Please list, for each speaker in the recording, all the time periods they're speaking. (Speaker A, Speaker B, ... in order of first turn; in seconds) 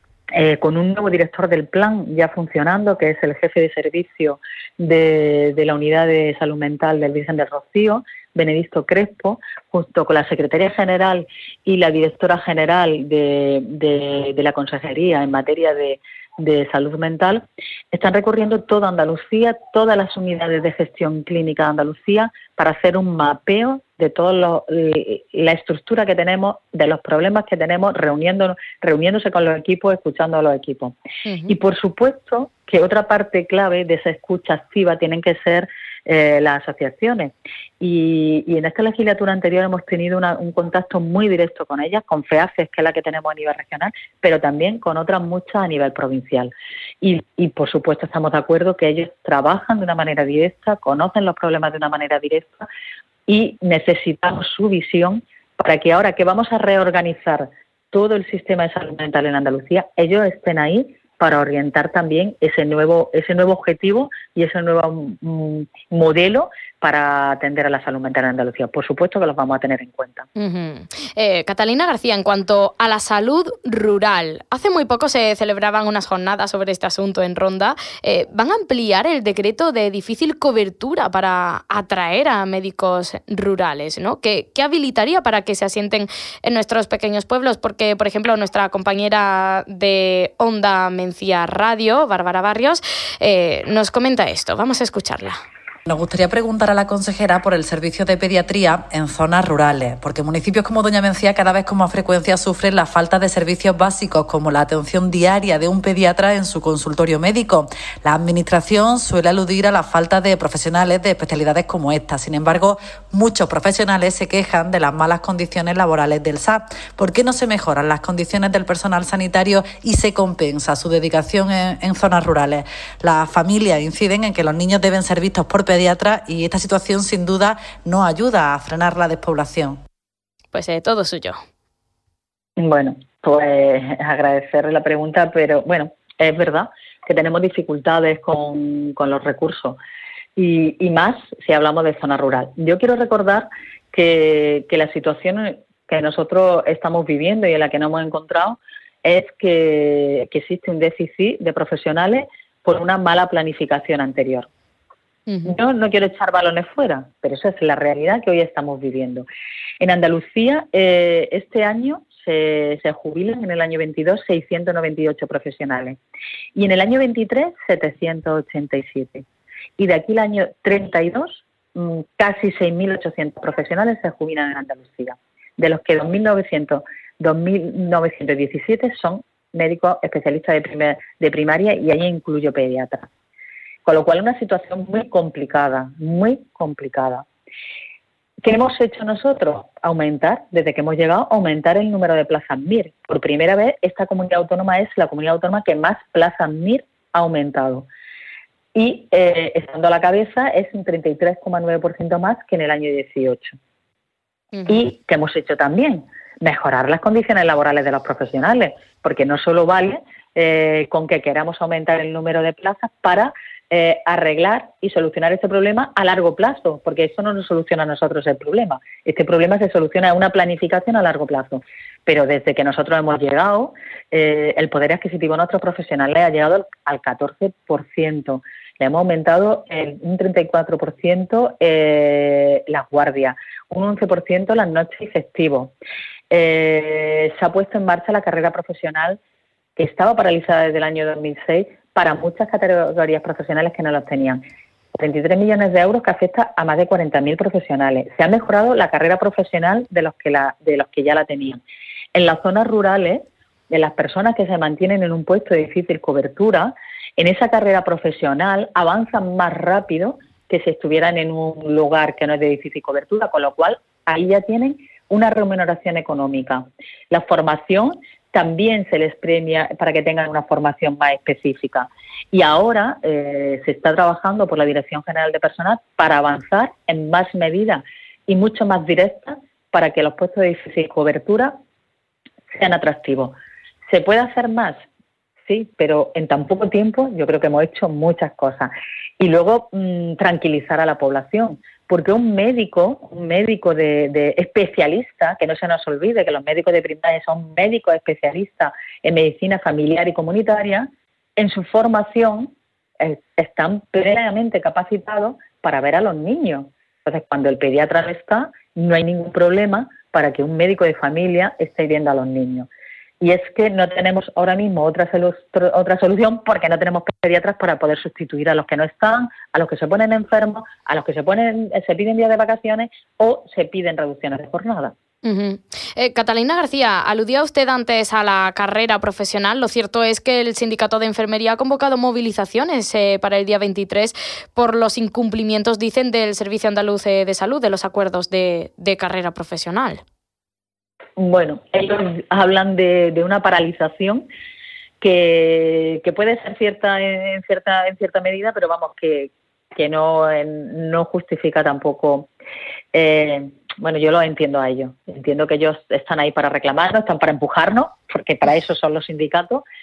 Speaker A: 0.3-30.9, 31.5-52.7, 53.3-70.3, 132.6-139.8, 140.4-154.5, 155.5-159.3, 159.8-166.0, 166.6-169.2, 169.8-183.1, 183.8-187.2, 188.4-197.9, 198.8-203.6, 204.7-235.8, 236.3-239.2, 239.8-244.4, 245.0-251.6, 252.1-281.6, 282.5-283.4, 283.9-284.8, 285.5-312.7, 313.2-324.9, 341.2-344.3, 345.0-352.3, 352.9-359.6
Speaker B: 31.3-31.5, 70.4-95.4, 130.5-131.4, 155.3-155.5, 204.5-204.8, 325.2-340.0
Speaker C: 95.9-129.8